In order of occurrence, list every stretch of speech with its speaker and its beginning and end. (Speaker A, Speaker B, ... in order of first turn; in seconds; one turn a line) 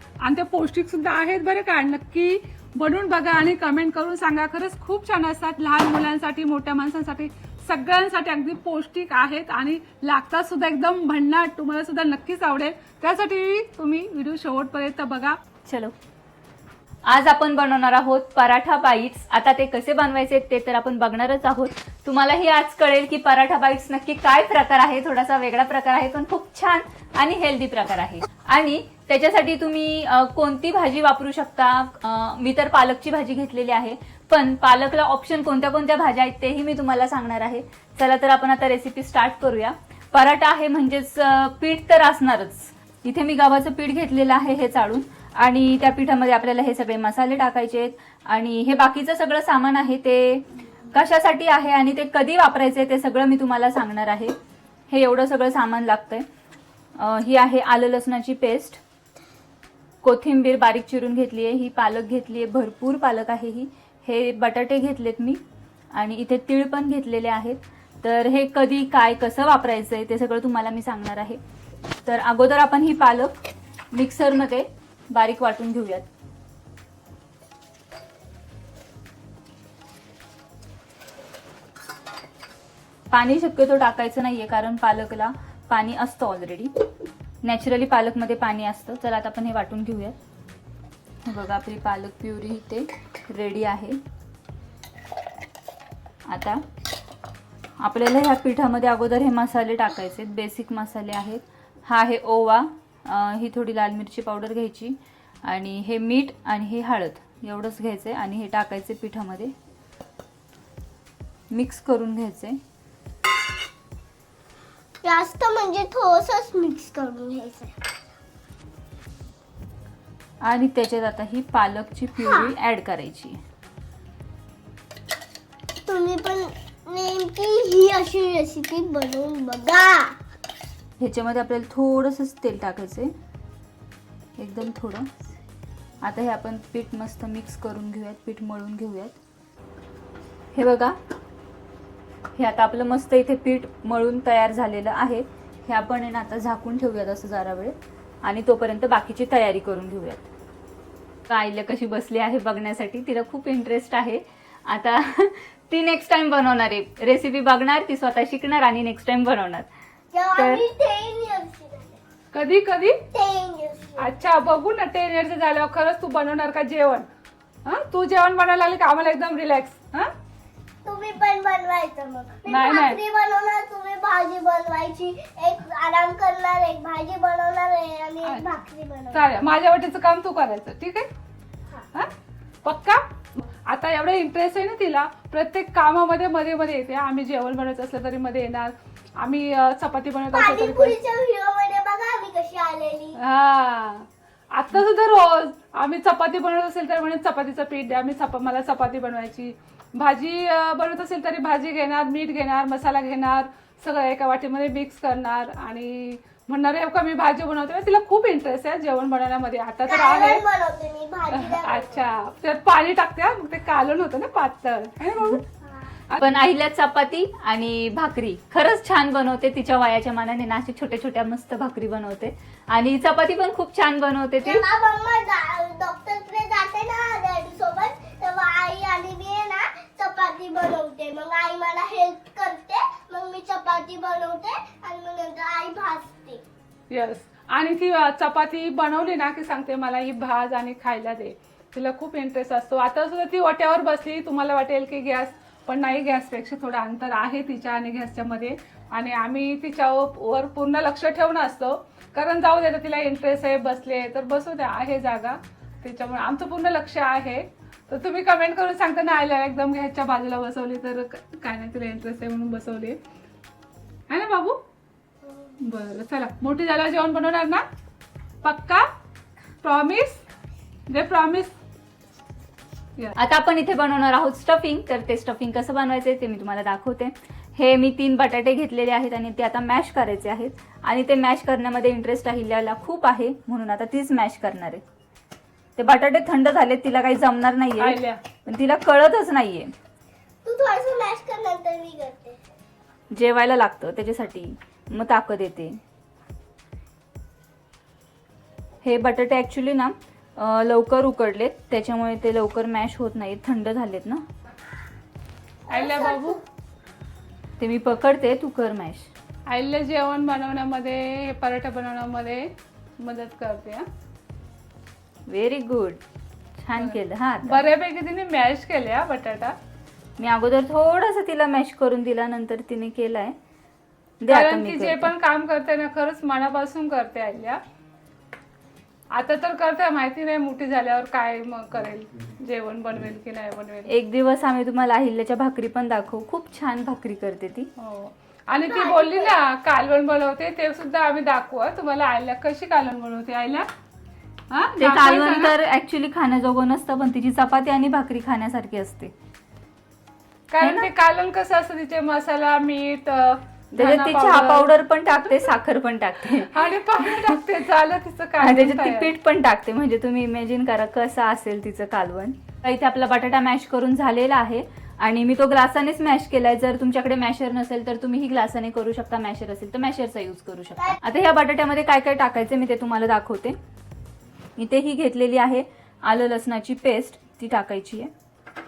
Speaker A: 0.2-15.4
Speaker B: 15.6-15.9
Speaker B: 17.1-54.3
Speaker B: 54.9-56.2
Speaker B: 57.0-58.8
Speaker B: 60.0-65.4
Speaker B: 65.9-71.4
Speaker B: 72.0-73.3
Speaker B: 73.9-76.1
Speaker B: 83.1-86.7
Speaker B: 87.4-90.2
Speaker B: 91.2-94.0
Speaker B: 96.3-96.6
Speaker B: 97.8-109.5
Speaker B: 111.5-112.6
Speaker C: 115.0-117.7
Speaker B: 120.4-123.4
Speaker C: 122.2-122.5
Speaker C: 125.8-130.2
Speaker B: 131.0-133.1
Speaker B: 134.4-135.1
Speaker B: 136.0-139.2
Speaker B: 140.5-140.9
Speaker B: 142.3-150.3
Speaker B: 151.3-159.7
Speaker C: 160.1-162.0
Speaker B: 160.3-160.7
Speaker A: 162.3-163.0
Speaker C: 163.1-164.1
Speaker A: 164.0-167.1
Speaker A: 167.6-170.1
Speaker C: 170.8-179.3
Speaker A: 172.5-173.0
Speaker A: 179.1-181.1
Speaker A: 182.6-191.0
Speaker C: 190.3-193.2
Speaker A: 193.2-210.4
Speaker C: 209.8-212.0
Speaker A: 211.3-215.4
Speaker B: 216.2-224.6
Speaker C: 224.4-236.4
Speaker A: 236.9-263.0
Speaker A: 264.1-264.6
Speaker C: 265.2-265.6
Speaker A: 265.6-267.6
Speaker A: 268.4-268.8
Speaker A: 269.6-270.2
Speaker A: 270.9-271.5
Speaker B: 273.1-284.8
Speaker B: 285.8-289.7
Speaker A: 287.8-288.2
Speaker C: 290.4-292.4
Speaker B: 293.1-295.8
Speaker B: 298.8-304.2
Speaker C: 305.7-306.4
Speaker A: 305.7-306.4
Speaker B: 307.6-309.1
Speaker A: 309.4-313.9
Speaker B: 315.3-316.0
Speaker B: 316.6-317.6
Speaker A: 316.8-319.5
Speaker B: 320.2-323.4
Speaker B: 324.2-325.1
Speaker A: 324.3-327.6
Speaker A: 329.1-333.9
Speaker B: 333.9-337.7
Speaker A: 337.8-343.7
Speaker C: 338.6-339.4
Speaker A: 344.5-345.5
Speaker B: 344.7-349.1
Speaker A: 350.5-354.7
Speaker B: 350.6-350.9
Speaker B: 353.7-357.4
Speaker A: 356.4-359.1
Speaker B: 358.4-373.6
Speaker B: 374.6-378.1